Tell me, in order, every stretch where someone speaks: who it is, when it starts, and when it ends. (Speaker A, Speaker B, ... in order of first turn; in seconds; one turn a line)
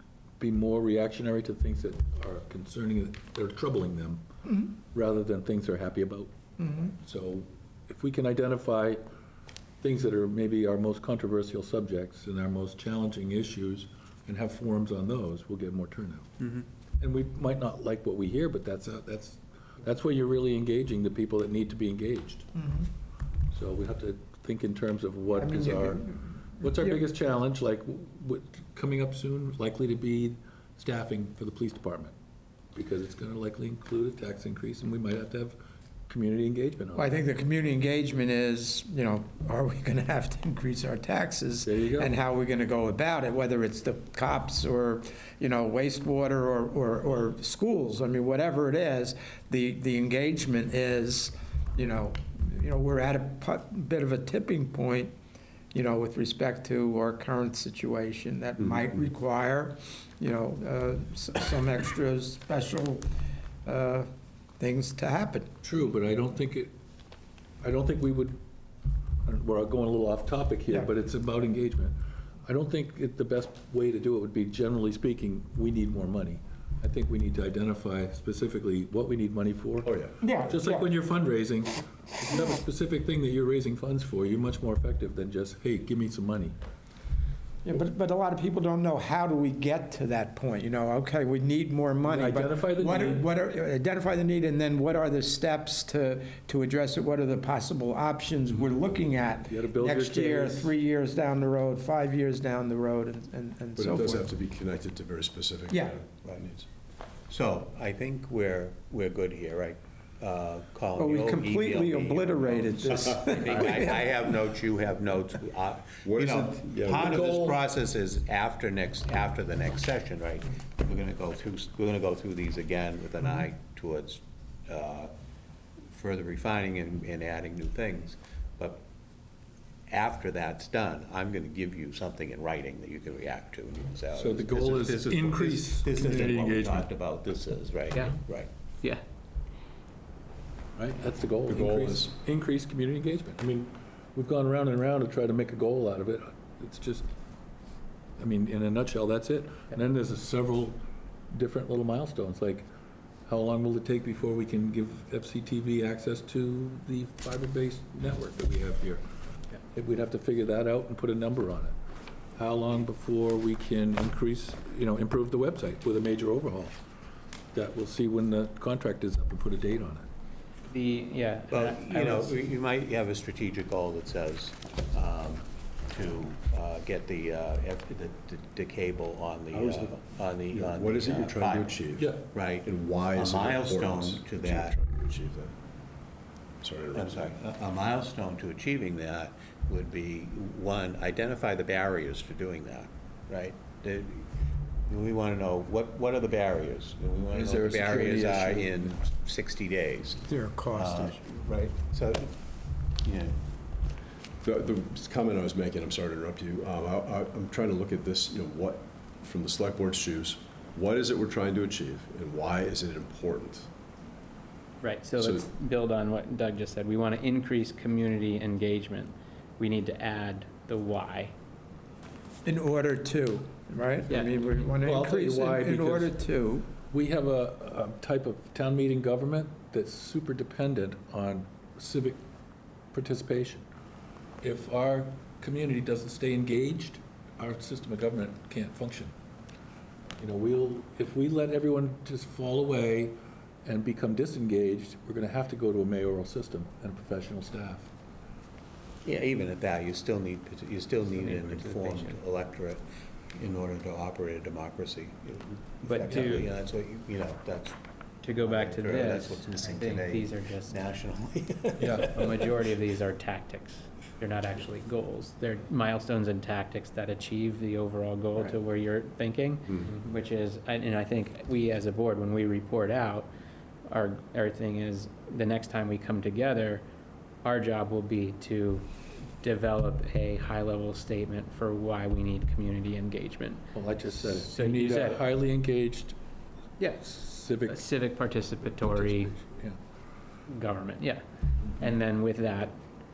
Speaker A: 0.4-4.2
Speaker A: 4.9-6.3
Speaker B: 6.6-6.9
Speaker A: 6.8-9.0
Speaker A: 9.8-22.5
Speaker B: 22.5-22.9
Speaker A: 23.5-32.1
Speaker B: 25.3-27.0
Speaker A: 32.7-37.1
Speaker B: 36.9-55.1
Speaker A: 41.6-42.1
Speaker B: 55.7-63.1
Speaker B: 63.6-64.1
Speaker B: 64.6-65.5
Speaker A: 65.6-66.7
Speaker A: 67.6-68.4
Speaker A: 69.2-71.9
Speaker A: 72.5-86.5
Speaker C: 79.8-80.1
Speaker B: 80.2-80.9
Speaker B: 87.6-104.3
Speaker A: 92.0-93.2
Speaker A: 99.5-100.7
Speaker C: 103.8-106.7
Speaker B: 105.7-106.0
Speaker D: 107.3-125.1
Speaker B: 111.0-114.2
Speaker C: 116.0-117.4
Speaker A: 116.8-117.6
Speaker D: 125.9-128.8
Speaker D: 129.9-138.5
Speaker A: 134.1-136.9
Speaker A: 140.8-147.1
Speaker C: 141.4-142.2
Speaker A: 148.2-152.7
Speaker A: 153.2-159.0
Speaker A: 159.7-161.7
Speaker A: 162.3-166.8
Speaker A: 167.5-170.1
Speaker E: 170.7-172.3
Speaker D: 171.5-184.7
Speaker C: 179.5-185.5
Speaker A: 182.0-182.2
Speaker C: 186.6-187.4
Speaker D: 186.9-194.3
Speaker D: 194.8-200.2
Speaker A: 197.3-198.8
Speaker B: 200.2-201.2
Speaker D: 200.8-202.3
Speaker D: 203.0-203.3
Speaker C: 204.4-213.7
Speaker E: 214.8-221.3
Speaker C: 215.2-215.5
Speaker B: 222.4-226.7
Speaker E: 224.1-224.3
Speaker A: 224.8-226.2
Speaker A: 226.9-232.2
Speaker A: 232.9-233.7
Speaker A: 234.4-239.1
Speaker A: 240.2-247.9
Speaker D: 249.0-252.8
Speaker E: 251.1-252.2
Speaker D: 253.3-257.8
Speaker E: 255.9-256.5
Speaker E: 258.2-260.9
Speaker D: 258.4-262.4
Speaker A: 261.8-262.1
Speaker E: 262.0-273.3
Speaker E: 273.9-276.8
Speaker E: 277.4-278.9
Speaker E: 279.4-285.2
Speaker A: 283.7-286.1
Speaker E: 286.8-287.1
Speaker A: 287.0-287.9
Speaker E: 287.6-289.3
Speaker A: 288.8-289.8
Speaker E: 290.5-291.2
Speaker E: 291.8-292.8